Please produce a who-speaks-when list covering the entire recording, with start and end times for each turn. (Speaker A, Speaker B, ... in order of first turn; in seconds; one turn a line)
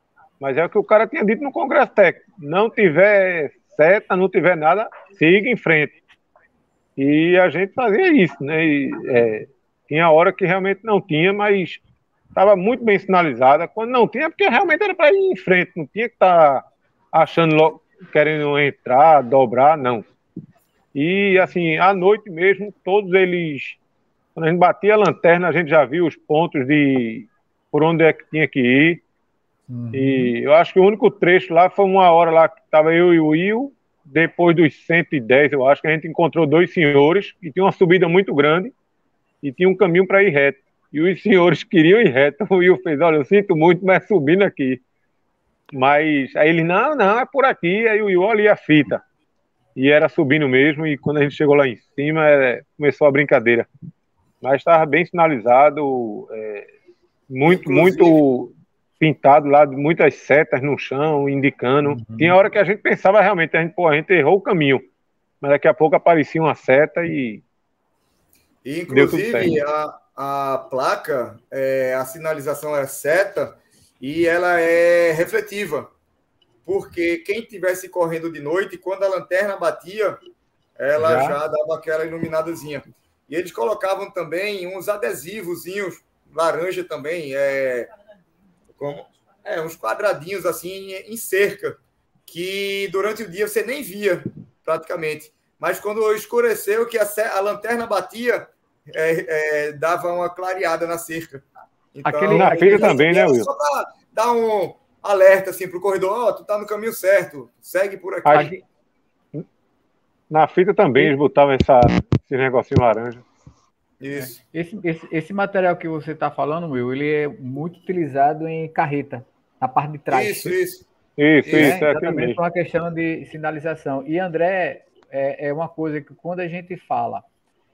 Speaker A: 0.4-6.0
Speaker A: 7.0-11.8
Speaker A: 12.3-20.1
Speaker A: 20.9-23.8
Speaker A: 24.4-29.0
Speaker B: 29.7-30.3
Speaker A: 29.9-38.7
Speaker A: 39.4-44.8
Speaker A: 45.7-49.0
Speaker A: 49.8-53.7
Speaker A: 54.4-56.7
Speaker A: 57.3-64.9
Speaker C: 57.5-58.2
Speaker B: 61.9-62.4
Speaker A: 65.4-67.4
Speaker C: 68.6-75.9
Speaker A: 68.9-69.5
Speaker C: 76.6-80.2
Speaker C: 80.8-87.9
Speaker B: 81.0-81.4
Speaker C: 88.8-108.5
Speaker B: 102.0-103.0
Speaker A: 102.3-103.5
Speaker A: 108.2-108.5
Speaker B: 108.3-108.6
Speaker A: 110.3-113.2
Speaker C: 114.0-114.4
Speaker B: 114.1-120.6
Speaker C: 120.1-120.9
Speaker A: 121.2-122.4
Speaker B: 121.4-127.3